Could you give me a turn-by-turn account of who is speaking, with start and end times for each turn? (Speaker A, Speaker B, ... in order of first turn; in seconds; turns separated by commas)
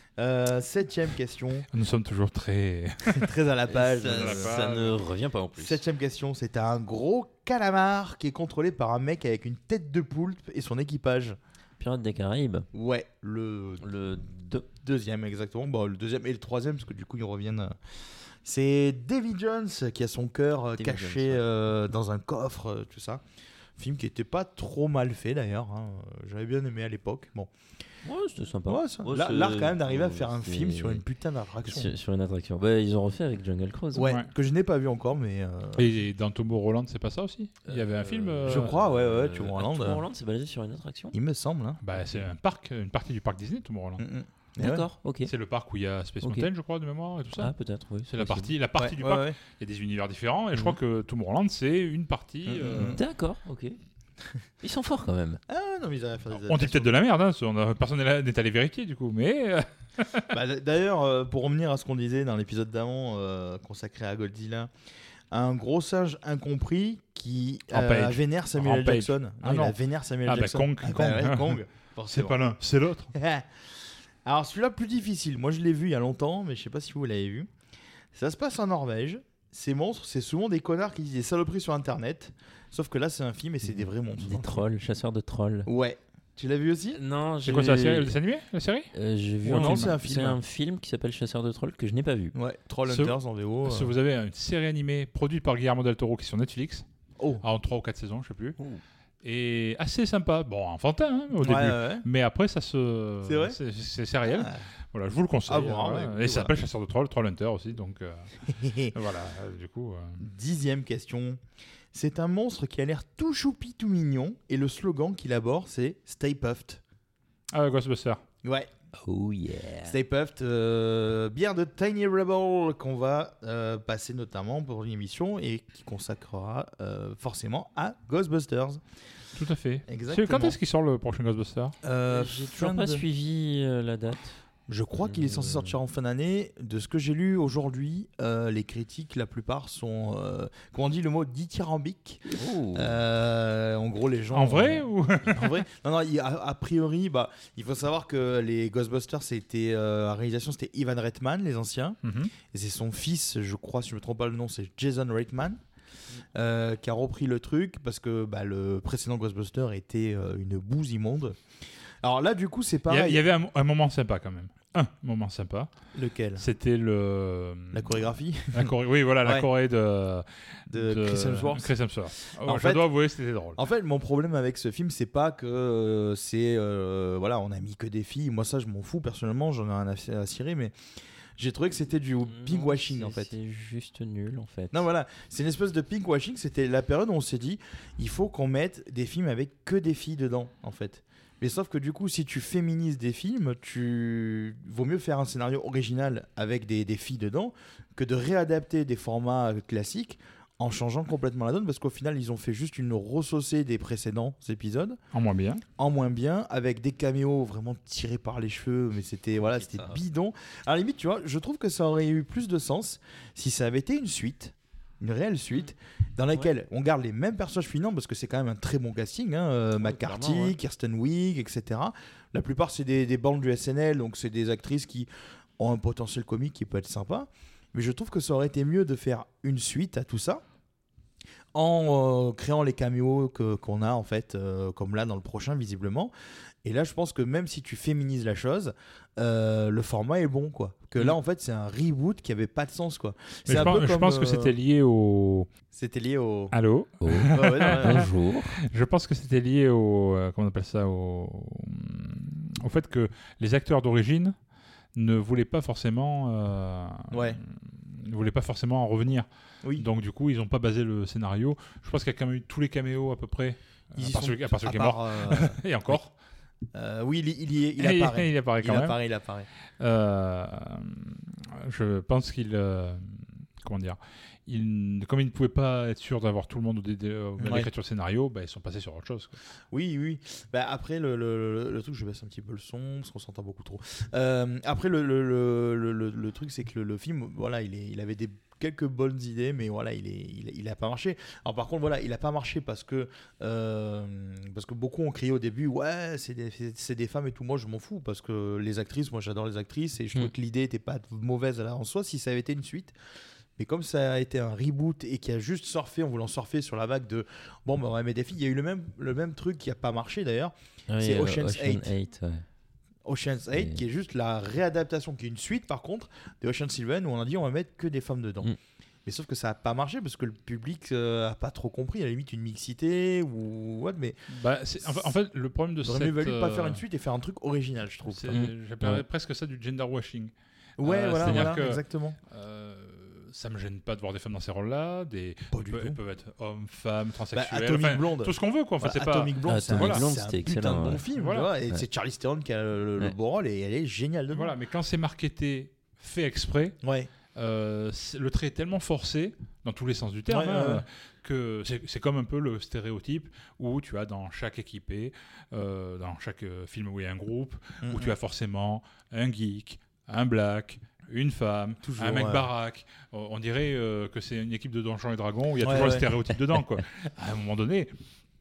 Speaker A: 0.2-1.7, Speaker B: 1.7-3.3, Speaker A: 3.1-4.5, Speaker C: 3.7-5.8, Speaker B: 4.1-5.0, Speaker A: 5.6-11.4, Speaker C: 11.8-12.7, Speaker A: 12.7-13.9, Speaker C: 13.8-14.7, Speaker A: 14.7-17.8, Speaker A: 18.4-23.2, Speaker C: 20.8-21.4, Speaker A: 23.8-27.5, Speaker C: 28.1-31.0, Speaker A: 28.7-31.9, Speaker C: 31.6-34.1, Speaker A: 33.9-35.9, Speaker B: 34.0-34.3, Speaker B: 35.8-38.7, Speaker C: 37.7-41.1, Speaker A: 38.5-40.0, Speaker A: 41.1-41.8, Speaker B: 41.8-44.0, Speaker A: 44.0-44.8, Speaker C: 44.6-45.3, Speaker B: 45.2-47.5, Speaker C: 46.2-46.5, Speaker C: 47.4-48.5, Speaker B: 48.1-53.0, Speaker A: 48.8-49.4, Speaker A: 52.5-53.0, Speaker C: 52.9-53.8, Speaker C: 54.6-55.4, Speaker A: 55.5-57.0, Speaker B: 56.4-60.3, Speaker A: 60.3-64.7, Speaker A: 65.3-72.4, Speaker B: 67.7-73.1, Speaker A: 73.1-73.6, Speaker A: 74.2-77.5, Speaker A: 78.1-84.6, Speaker C: 84.2-85.7, Speaker A: 85.7-87.0, Speaker C: 86.9-88.2, Speaker B: 87.4-88.9, Speaker C: 88.9-92.3, Speaker B: 89.5-90.0, Speaker A: 89.5-90.4, Speaker A: 92.3-93.9, Speaker B: 92.9-96.8, Speaker A: 97.2-97.4, Speaker B: 97.4-98.6, Speaker B: 99.2-108.3, Speaker A: 101.4-102.1, Speaker A: 103.2-103.6, Speaker A: 104.2-104.7, Speaker A: 105.5-106.5, Speaker A: 108.5-109.0, Speaker B: 108.9-110.2, Speaker A: 110.2-111.4, Speaker A: 111.9-116.8, Speaker B: 117.5-118.2, Speaker A: 118.4-118.7, Speaker C: 119.0-120.0, Speaker A: 119.8-128.8, Speaker B: 129.4-131.8, Speaker A: 129.9-130.6, Speaker A: 131.8-133.0, Speaker C: 132.1-134.4, Speaker A: 134.7-142.2, Speaker C: 135.0-135.8, Speaker C: 142.3-143.0, Speaker A: 142.8-155.6, Speaker B: 144.3-145.6, Speaker B: 152.0-152.3, Speaker A: 156.3-161.4, Speaker A: 162.0-163.2, Speaker B: 162.9-165.7, Speaker A: 165.9-166.5, Speaker B: 166.4-168.0, Speaker A: 167.7-169.5, Speaker B: 168.5-173.6, Speaker A: 170.7-171.7, Speaker A: 172.4-172.9, Speaker A: 173.6-180.8, Speaker A: 181.4-183.3, Speaker C: 182.3-184.8, Speaker A: 184.7-205.0, Speaker B: 205.1-205.6, Speaker A: 205.8-230.4, Speaker C: 209.4-210.0, Speaker C: 219.8-220.6, Speaker A: 231.5-236.1, Speaker A: 236.6-244.5, Speaker B: 243.5-245.5, Speaker A: 245.7-246.5, Speaker B: 246.5-248.1, Speaker C: 247.0-248.6, Speaker A: 247.3-248.1, Speaker B: 248.6-254.3, Speaker B: 255.0-266.1, Speaker A: 257.1-257.4, Speaker A: 264.0-266.0, Speaker A: 266.7-269.5, Speaker B: 267.8-269.0, Speaker B: 269.8-279.4, Speaker A: 277.4-277.7, Speaker A: 279.7-302.9, Speaker A: 303.6-311.9, Speaker C: 310.9-312.4, Speaker A: 313.1-318.5, Speaker C: 313.6-313.8, Speaker A: 319.1-324.2, Speaker B: 324.3-326.8, Speaker A: 324.8-325.1, Speaker A: 325.8-328.4, Speaker B: 328.1-340.0, Speaker C: 328.3-329.0, Speaker A: 330.8-332.2, Speaker A: 335.5-336.0, Speaker A: 337.3-344.5, Speaker C: 339.5-341.0, Speaker B: 341.2-341.5, Speaker B: 344.3-346.8, Speaker A: 346.8-347.1, Speaker B: 347.4-367.9, Speaker A: 350.3-350.9, Speaker A: 357.8-358.1, Speaker A: 361.8-362.5, Speaker A: 365.6-366.1